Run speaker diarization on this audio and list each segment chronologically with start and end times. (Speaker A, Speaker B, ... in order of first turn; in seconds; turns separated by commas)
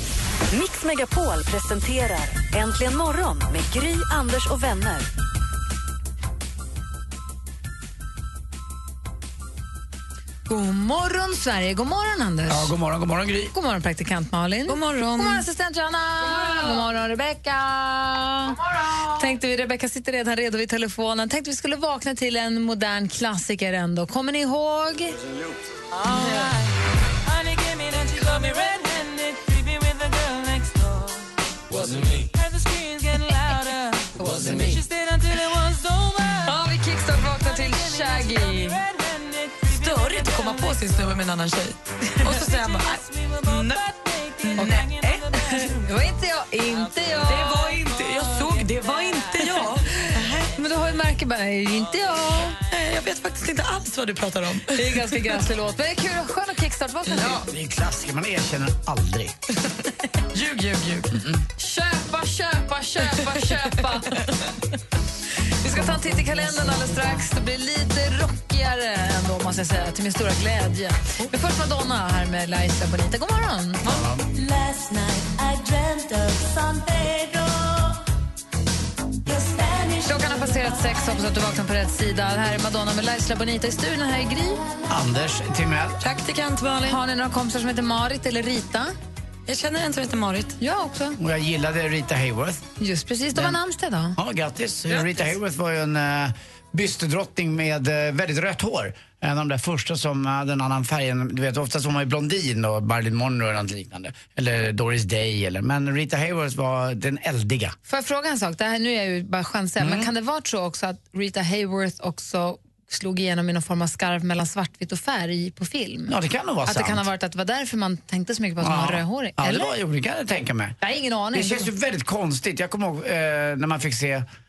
Speaker A: 0.5-5.1, Speaker B: 10.5-12.7, Speaker C: 12.5-13.5, Speaker B: 13.5-25.2, Speaker D: 14.7-15.4, Speaker D: 26.2-26.5, Speaker B: 34.1-34.8, Speaker B: 36.2-38.8, Speaker D: 39.6-45.3, Speaker B: 44.5-44.9, Speaker B: 45.5-47.7, Speaker D: 47.3-50.5, Speaker B: 49.4-52.6, Speaker D: 52.7-55.5, Speaker B: 54.7-57.5, Speaker D: 57.1-57.5, Speaker C: 57.4-59.4, Speaker D: 60.3-61.2, Speaker B: 61.6-64.2, Speaker D: 63.2-64.4, Speaker B: 65.6-73.8, Speaker D: 65.8-67.2, Speaker C: 73.8-74.3, Speaker E: 74.4-77.4, Speaker E: 79.4-79.8, Speaker B: 80.0-84.6, Speaker C: 84.9-86.0, Speaker D: 86.0-87.0, Speaker B: 86.8-88.9, Speaker D: 89.5-90.5, Speaker B: 90.6-91.2, Speaker C: 91.2-92.6, Speaker B: 92.8-94.2, Speaker C: 94.2-107.8, Speaker D: 94.9-95.2, Speaker B: 107.9-116.1, Speaker C: 109.8-110.1, Speaker C: 116.1-117.0, Speaker B: 116.6-119.7, Speaker C: 118.6-120.8, Speaker B: 120.8-121.7, Speaker C: 121.3-124.3